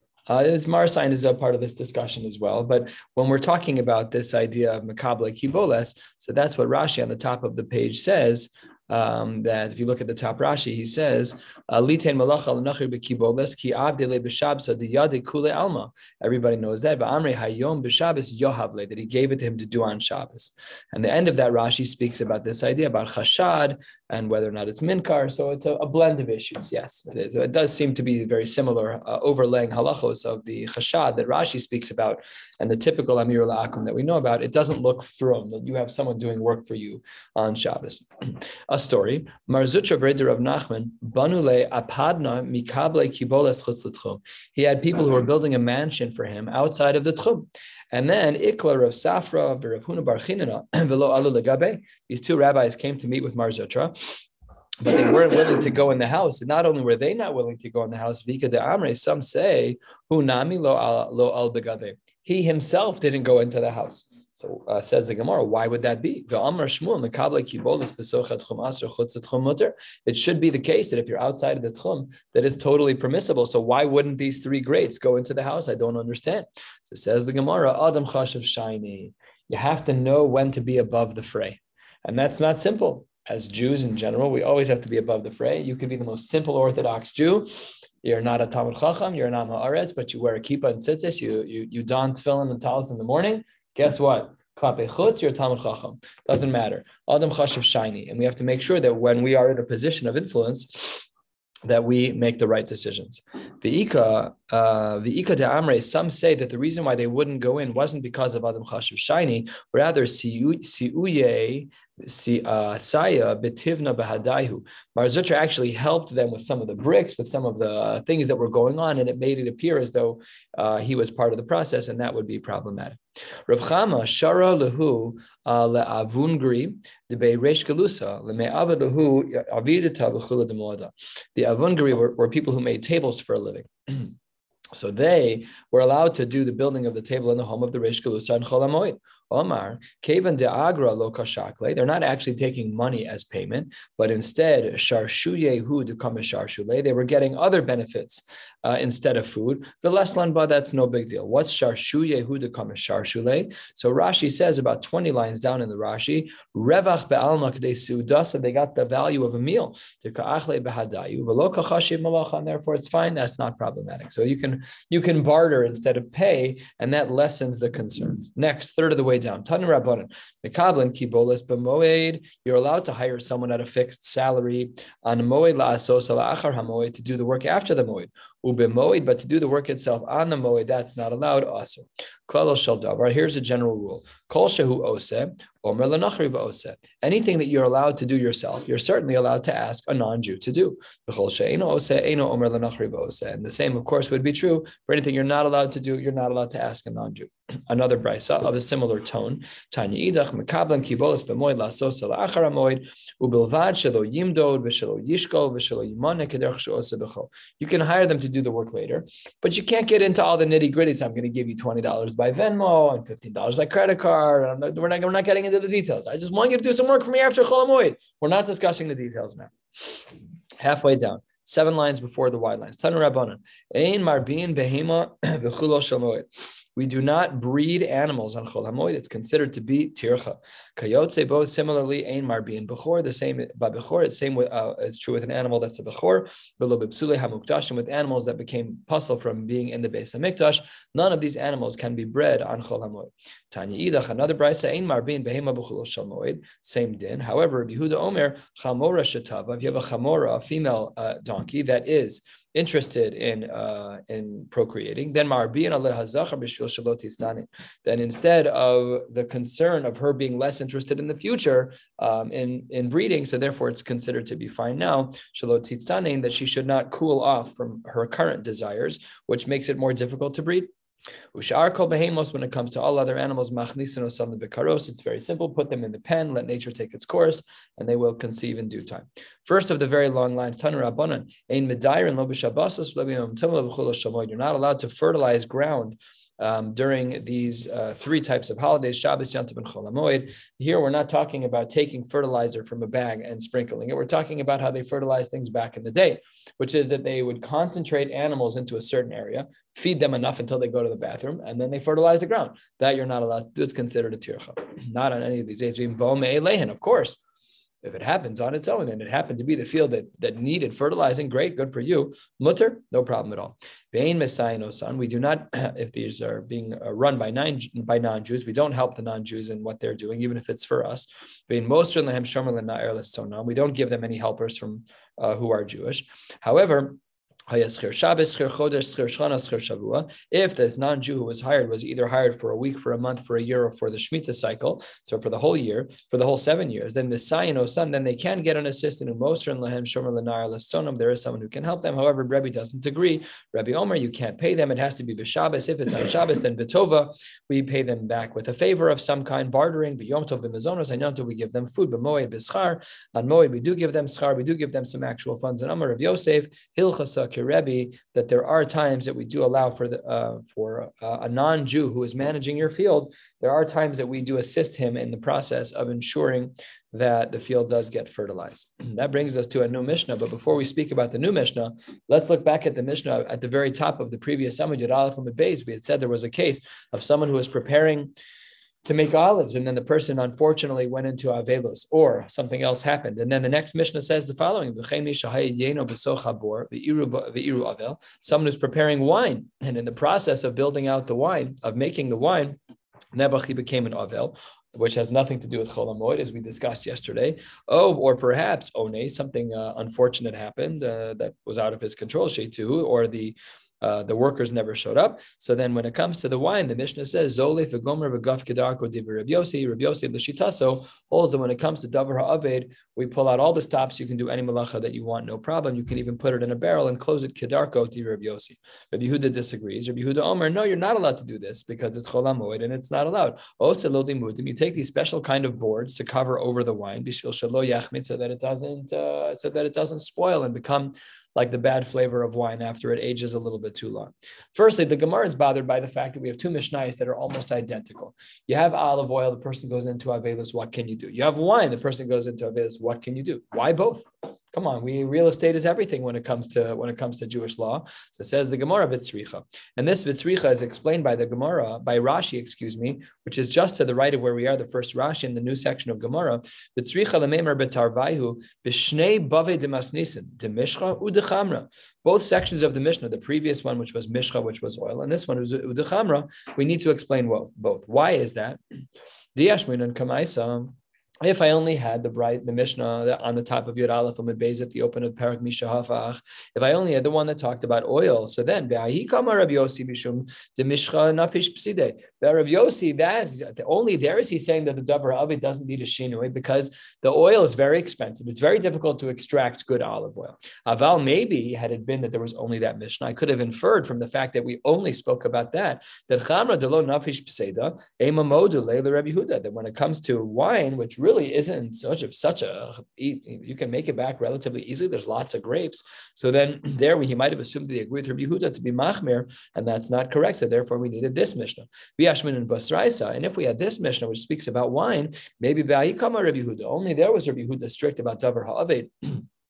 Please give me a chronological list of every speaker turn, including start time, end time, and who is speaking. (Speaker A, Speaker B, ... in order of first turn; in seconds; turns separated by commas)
Speaker A: 0.3-54.2, Speaker A: 54.8-87.5, Speaker A: 88.0-101.1, Speaker A: 101.7-134.2, Speaker A: 134.7-219.9, Speaker A: 220.6-270.7, Speaker A: 271.3-307.2, Speaker A: 307.8-378.1, Speaker A: 378.8-392.6, Speaker A: 393.1-468.6, Speaker A: 469.4-519.2